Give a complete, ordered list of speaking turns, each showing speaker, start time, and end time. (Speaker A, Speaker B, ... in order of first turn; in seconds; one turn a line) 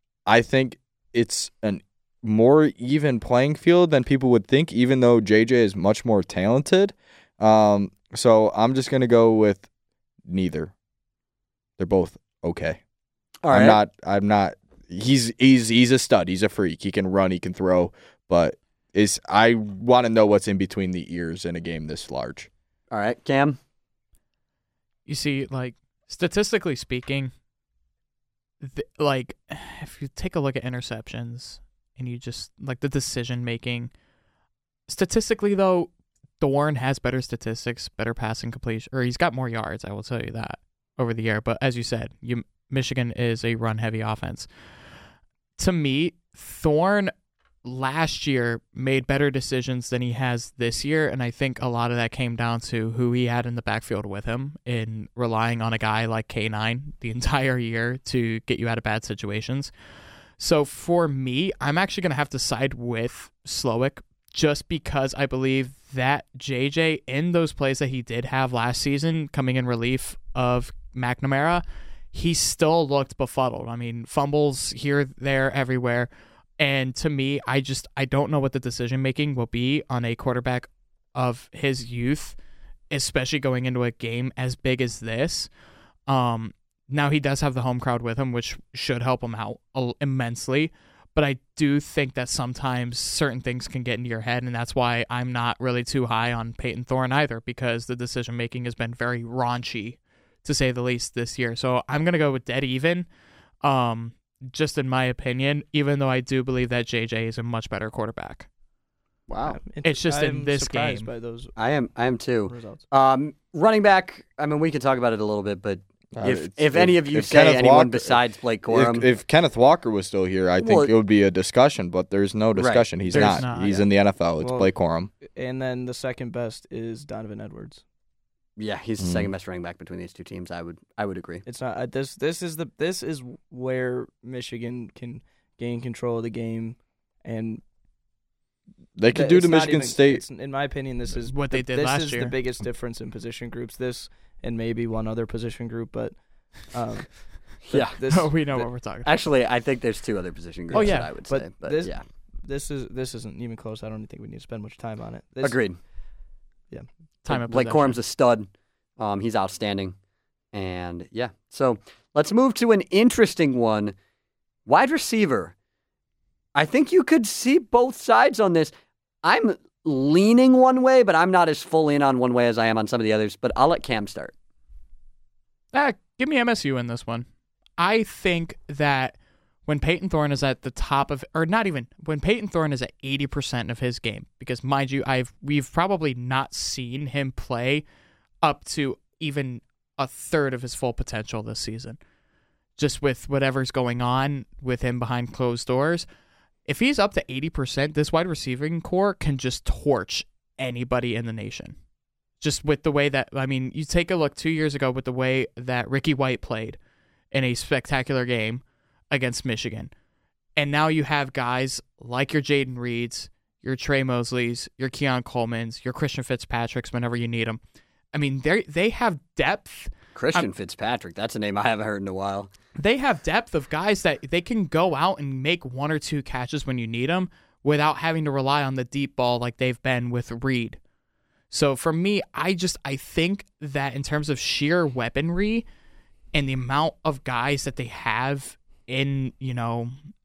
Speaker A: 0.2-9.7
Speaker A: 10.3-10.7
Speaker A: 11.8-12.8
Speaker B: 13.4-13.8
Speaker A: 13.5-22.5
Speaker B: 22.9-23.6
Speaker C: 25.1-27.3
Speaker C: 28.6-33.9
Speaker C: 34.9-44.5
Speaker C: 45.6-47.1
Speaker C: 47.6-59.7
Speaker C: 60.4-82.3
Speaker C: 82.9-85.5
Speaker C: 86.1-103.0
Speaker C: 103.6-108.5
Speaker B: 109.3-109.6
Speaker D: 109.5-111.5
Speaker C: 109.8-111.1
Speaker B: 111.6-119.1
Speaker D: 112.5-112.8
Speaker A: 116.1-125.1
Speaker B: 120.6-120.9
Speaker B: 122.5-122.8
Speaker C: 123.1-123.9
Speaker D: 124.4-124.7
Speaker D: 125.2-127.8
Speaker B: 128.6-131.4
Speaker A: 129.0-129.3
Speaker D: 131.4-137.6
Speaker A: 139.0-140.2
Speaker D: 139.1-147.1
Speaker C: 141.2-142.3
Speaker B: 147.7-148.0
Speaker D: 147.7-148.7
Speaker C: 148.1-149.1
Speaker B: 149.0-152.0
Speaker D: 150.7-155.6
Speaker C: 150.7-151.1
Speaker B: 155.4-155.8
Speaker C: 157.2-158.0
Speaker B: 157.3-159.9
Speaker B: 160.5-163.9
Speaker B: 164.7-165.5
Speaker B: 166.5-174.3
Speaker C: 175.7-177.3
Speaker C: 177.8-179.2
Speaker C: 179.7-187.8
Speaker C: 188.4-192.0
Speaker C: 192.8-196.1
Speaker C: 196.7-201.8
Speaker C: 202.4-206.8
Speaker C: 207.3-209.9
Speaker C: 210.6-217.6
Speaker C: 218.1-220.5
Speaker B: 220.1-222.5
Speaker C: 222.8-230.8
Speaker C: 231.5-235.7
Speaker C: 236.3-239.9